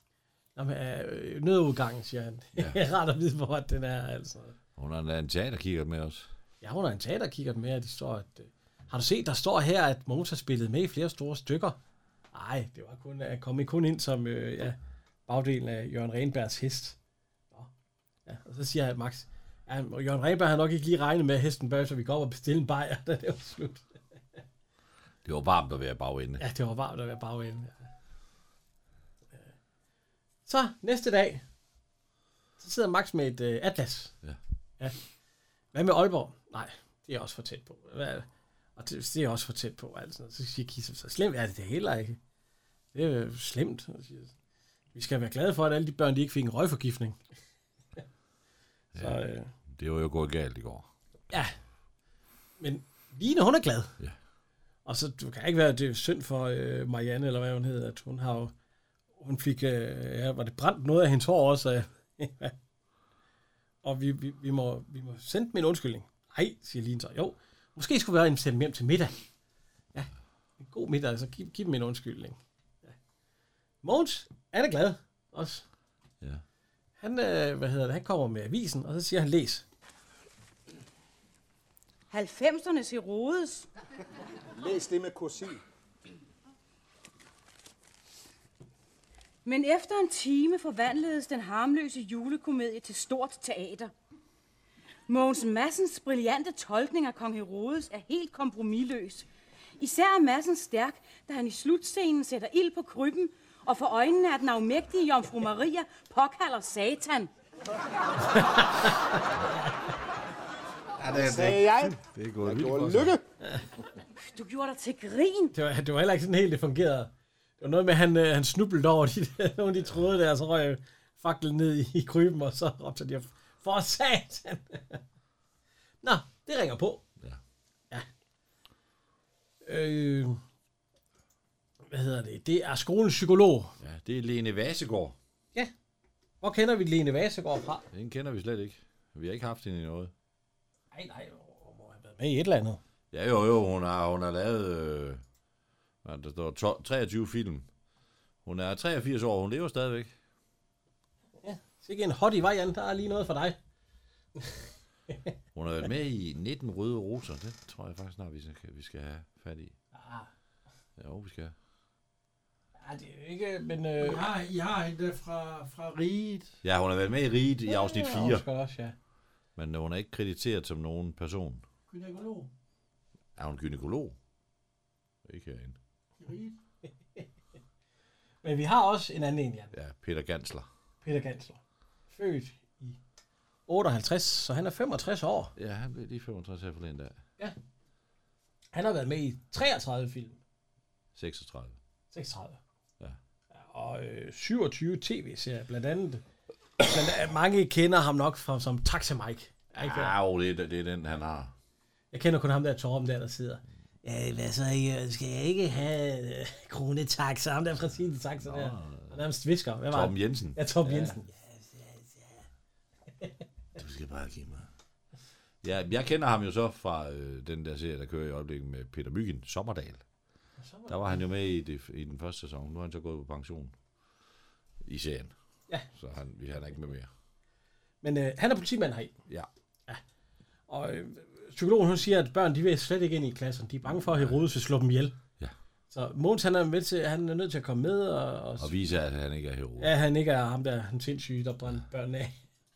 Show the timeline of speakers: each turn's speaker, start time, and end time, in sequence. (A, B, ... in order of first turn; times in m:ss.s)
0:00.6-0:04.6 A
0:04.8-0:06.3 B
0:06.6-0:11.8 A
0:12.3-0:17.0 A
0:18.3-0:23.9 A
0:25.2-0:26.4 B
0:26.4-0:27.9 A
0:30.5-0:31.4 A
0:32.6-0:34.2 A
0:35.7-0:42.2 A
0:42.9-0:44.3 A
0:44.9-0:47.2 A
0:48.9-0:50.9 B
0:49.0-0:49.5 A
0:52.6-0:53.9 A
0:54.9-0:58.5 A
0:59.2-1:02.5 A
1:03.8-1:09.2 A
1:10.6-1:13.0 A
1:13.8-1:15.6 A
1:17.0-1:19.6 A
1:22.1-1:23.7 C
1:24.6-1:25.6 D
1:29.4-1:33.9 C
1:35.1-1:39.3 C
1:39.8-1:47.3 C
1:48.3-1:49.2 A
1:51.0-1:53.2 B
1:51.1-1:53.2 D
1:54.3-1:55.6 C
1:55.5-2:05.0 A
2:06.0-2:07.0 A
2:09.6-2:10.4 A
2:11.9-2:13.8 A
2:13.8-2:15.2 B
2:16.4-2:17.9 A
2:17.9-2:20.1 B
2:20.9-2:22.8 A
2:23.1-2:25.2 B
2:26.0-2:27.7 B
2:28.4-2:30.1 B
2:31.4-2:33.6 A
2:35.5-2:39.7 B
2:39.9-2:40.3 A
2:41.0-2:41.5 B
2:42.8-2:44.2 A
2:44.0-2:46.5 E
2:46.6-2:48.4 B
2:47.7-2:49.0 A
2:49.6-2:51.6 B
2:51.9-2:52.5 E
2:53.4-2:54.2 B
2:55.2-2:55.8 B
2:56.2-2:56.5 E
2:58.4-2:59.7 A
2:59.7-3:00.7 B
3:01.0-3:03.0 A
3:03.7-3:05.5 A
3:05.6-3:07.2 B
3:08.7-3:10.4 A
3:11.2-3:11.8 B
3:12.1-3:12.6 A
3:13.5-3:16.2 A
3:16.8-3:20.2 A
3:19.8-3:21.5 B
3:22.1-3:32.4 A
3:28.4-3:29.2 B
3:29.9-3:31.2 B
3:33.8-3:34.7 B
3:35.6-3:40.0 B
3:40.6-3:41.2 A
3:40.9-3:43.7 B
3:44.8-3:45.3 B
3:45.9-3:47.1 B
3:48.0-3:49.2 A
3:50.7-3:55.2 A
3:53.9-3:54.4 B
3:55.9-3:58.7 A
3:58.6-3:59.9 B
3:59.8-4:02.4 A